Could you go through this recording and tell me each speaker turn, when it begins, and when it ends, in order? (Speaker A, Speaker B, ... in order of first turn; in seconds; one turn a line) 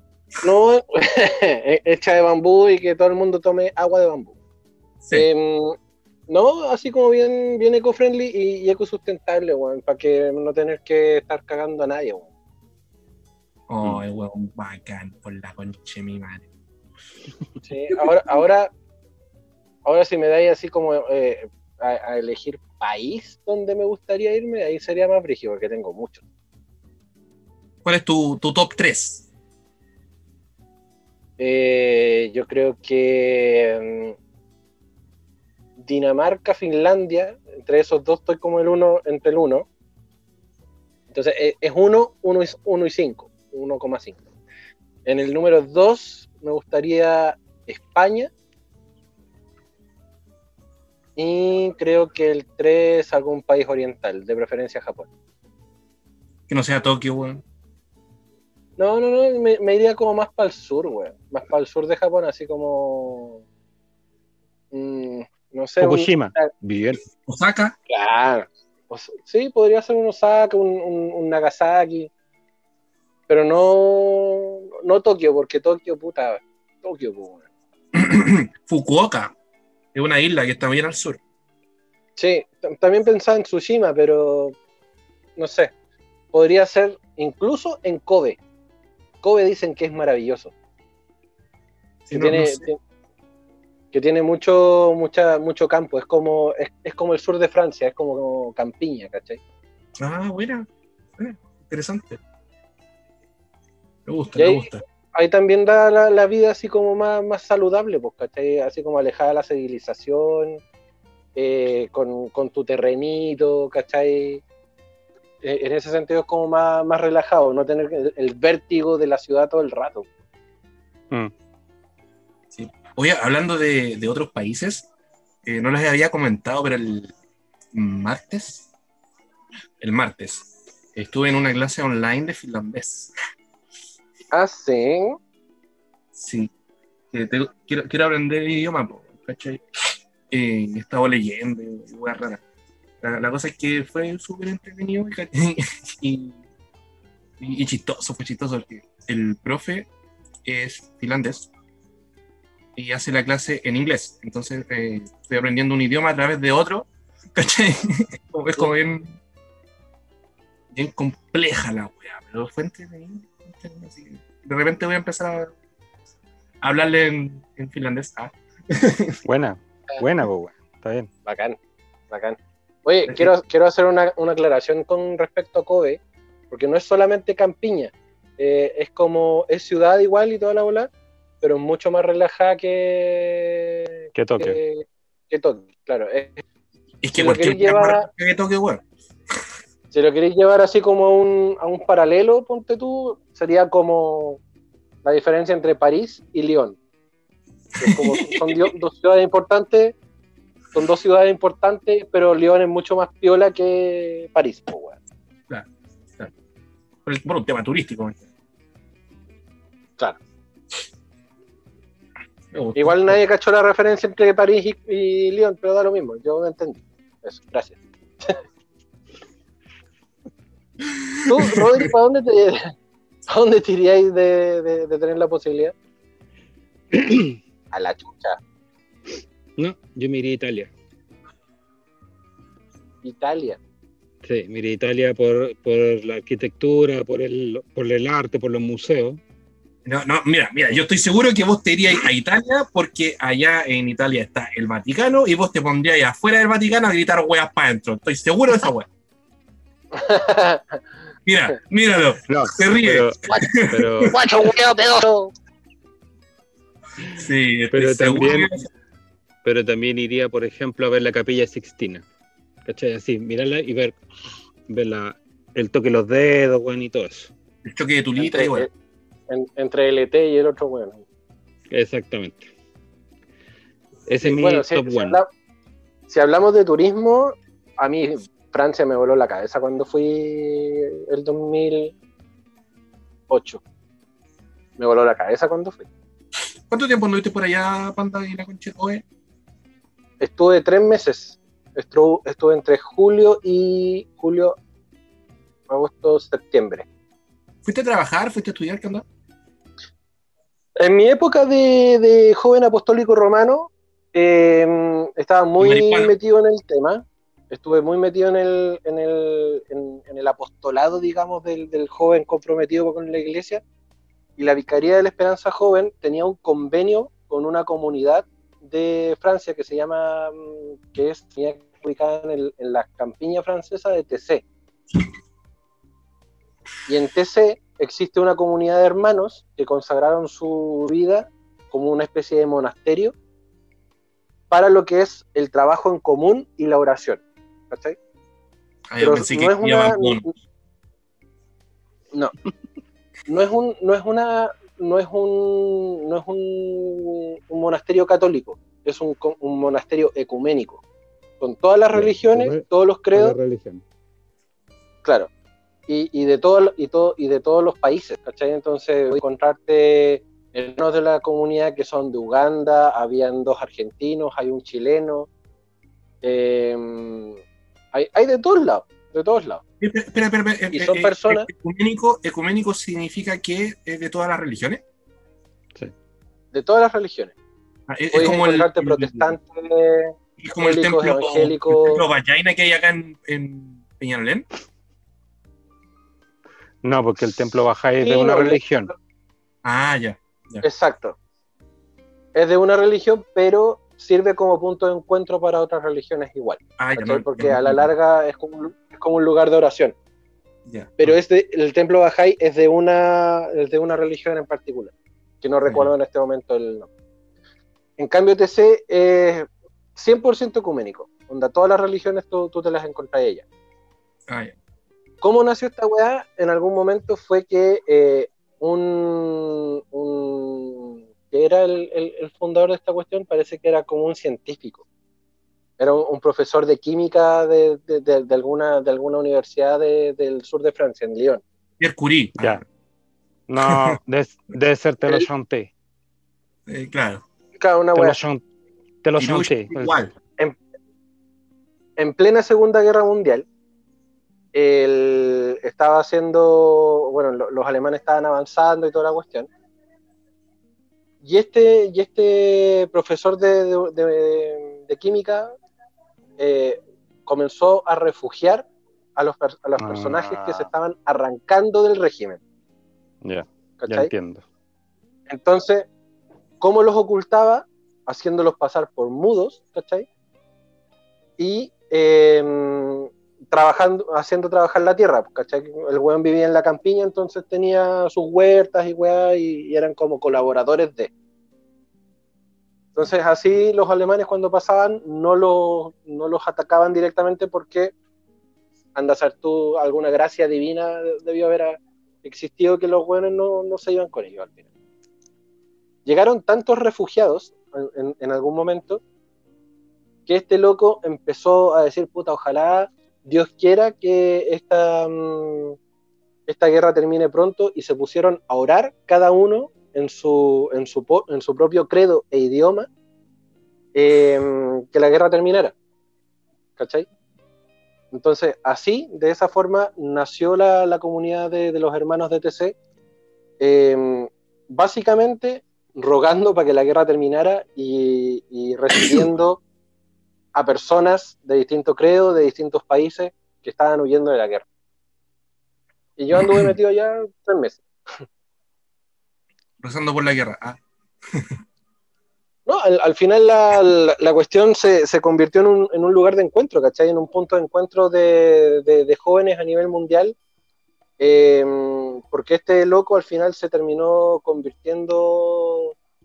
Speaker A: 0.4-4.3
Speaker A: 5.1-5.8
Speaker A: 6.3-12.3
Speaker B: 13.7-16.4
Speaker A: 17.6-18.7
Speaker A: 19.8-26.2
Speaker B: 27.8-29.2
Speaker A: 31.4-34.2
Speaker A: 35.8-39.7
Speaker A: 41.1-44.2
Speaker A: 45.0-48.3
Speaker A: 51.1-55.1
Speaker B: 56.5-57.4
Speaker A: 58.8-63.4
Speaker A: 64.7-66.5
Speaker C: 65.8-67.0
Speaker B: 67.2-67.8
Speaker A: 67.9-72.1
Speaker A: 73.3-77.5
Speaker B: 77.9-79.3
Speaker B: 79.9-81.2
Speaker A: 82.2-84.6
Speaker A: 85.4-85.7
Speaker A: 86.3-88.4
Speaker A: 89.2-90.5
Speaker A: 92.1-92.8
Speaker B: 92.1-92.7
Speaker A: 93.9-99.4
Speaker B: 100.0-100.7
Speaker B: 101.2-102.2
Speaker B: 104.1-104.8
Speaker A: 104.3-110.6
Speaker A: 111.3-114.4
Speaker A: 115.4-120.0
Speaker B: 122.5-124.9
Speaker B: 125.5-127.1
Speaker B: 127.7-128.7
Speaker B: 129.8-133.1
Speaker A: 134.3-135.2
Speaker B: 136.2-136.5
Speaker B: 137.1-142.4
Speaker B: 143.0-146.4
Speaker B: 147.4-149.9
Speaker B: 150.4-151.5
Speaker B: 152.8-159.2
Speaker B: 160.7-165.5
Speaker B: 166.6-169.2
Speaker C: 169.2-171.1
Speaker A: 171.2-171.6
Speaker A: 172.1-180.9
Speaker A: 181.4-186.4
Speaker C: 184.1-184.6
Speaker B: 187.0-188.8
Speaker A: 187.1-188.1
Speaker A: 189.9-194.4
Speaker A: 195.0-196.8
Speaker A: 197.8-199.9
Speaker B: 197.8-198.7
Speaker A: 200.7-205.0
Speaker B: 207.0-208.2
Speaker B: 212.5-213.2
Speaker A: 212.8-218.4
Speaker A: 221.3-222.7
Speaker A: 223.3-225.7
Speaker C: 226.9-227.4
Speaker A: 227.7-228.4
Speaker C: 229.6-230.7
Speaker A: 233.0-233.6
Speaker C: 234.2-239.2
Speaker B: 239.8-248.9
Speaker A: 249.9-250.7
Speaker B: 251.2-254.2
Speaker C: 252.3-254.2
Speaker A: 254.0-255.3
Speaker B: 257.0-258.6
Speaker C: 257.7-258.5
Speaker C: 259.4-262.0
Speaker C: 262.6-264.0
Speaker C: 264.7-267.3
Speaker B: 267.6-268.7
Speaker A: 268.2-268.7
Speaker A: 269.3-271.0
Speaker C: 271.7-272.5
Speaker C: 274.1-275.2
Speaker A: 274.2-275.3
Speaker A: 276.1-281.9
Speaker A: 283.3-283.6
Speaker A: 284.8-285.9
Speaker B: 286.7-289.0
Speaker A: 290.2-294.6
Speaker A: 295.7-296.9
Speaker B: 297.6-299.0
Speaker A: 300.8-313.6
Speaker B: 305.6-306.1
Speaker A: 314.4-324.4
Speaker A: 326.9-333.1
Speaker A: 334.5-338.0
Speaker B: 338.9-340.3
Speaker A: 339.0-340.3
Speaker A: 343.3-350.8
Speaker A: 351.4-353.4
Speaker C: 351.9-353.8
Speaker A: 355.0-355.3
Speaker A: 355.9-365.3
Speaker A: 366.2-367.4
Speaker A: 367.9-369.6
Speaker B: 369.8-374.8
Speaker A: 370.7-371.5
Speaker A: 376.5-377.3
Speaker B: 377.9-379.3
Speaker A: 378.1-382.0
Speaker B: 380.4-384.4
Speaker C: 386.8-388.9
Speaker A: 388.0-388.6
Speaker B: 389.6-390.6
Speaker A: 390.6-391.1
Speaker A: 392.3-399.9
Speaker B: 396.8-397.9
Speaker B: 400.7-401.2
Speaker A: 401.0-406.9
Speaker A: 408.0-413.4
Speaker B: 414.3-414.5
Speaker A: 415.2-424.8
Speaker A: 425.8-431.4
Speaker B: 431.8-432.6
Speaker C: 433.5-435.7
Speaker B: 433.6-434.0
Speaker B: 436.7-437.2
Speaker A: 437.6-438.2
Speaker C: 437.9-438.4
Speaker C: 439.0-440.0
Speaker B: 439.2-440.1
Speaker A: 442.0-443.4
Speaker A: 444.5-449.5
Speaker A: 451.2-455.5
Speaker A: 456.4-458.6
Speaker A: 459.2-462.4
Speaker C: 459.8-460.7
Speaker C: 463.2-464.4
Speaker A: 463.8-464.1
Speaker A: 465.3-465.9
Speaker A: 466.6-470.1
Speaker A: 471.4-481.1
Speaker A: 482.9-487.9
Speaker A: 488.9-494.6
Speaker A: 496.0-499.0
Speaker A: 500.2-505.8
Speaker A: 506.5-512.9
Speaker A: 513.9-515.7
Speaker A: 516.8-517.1
Speaker A: 518.1-522.8
Speaker A: 523.6-529.6
Speaker A: 530.5-534.6
Speaker A: 536.2-538.2
Speaker B: 536.4-536.7
Speaker B: 539.8-540.8
Speaker A: 542.6-550.4
Speaker A: 551.2-555.9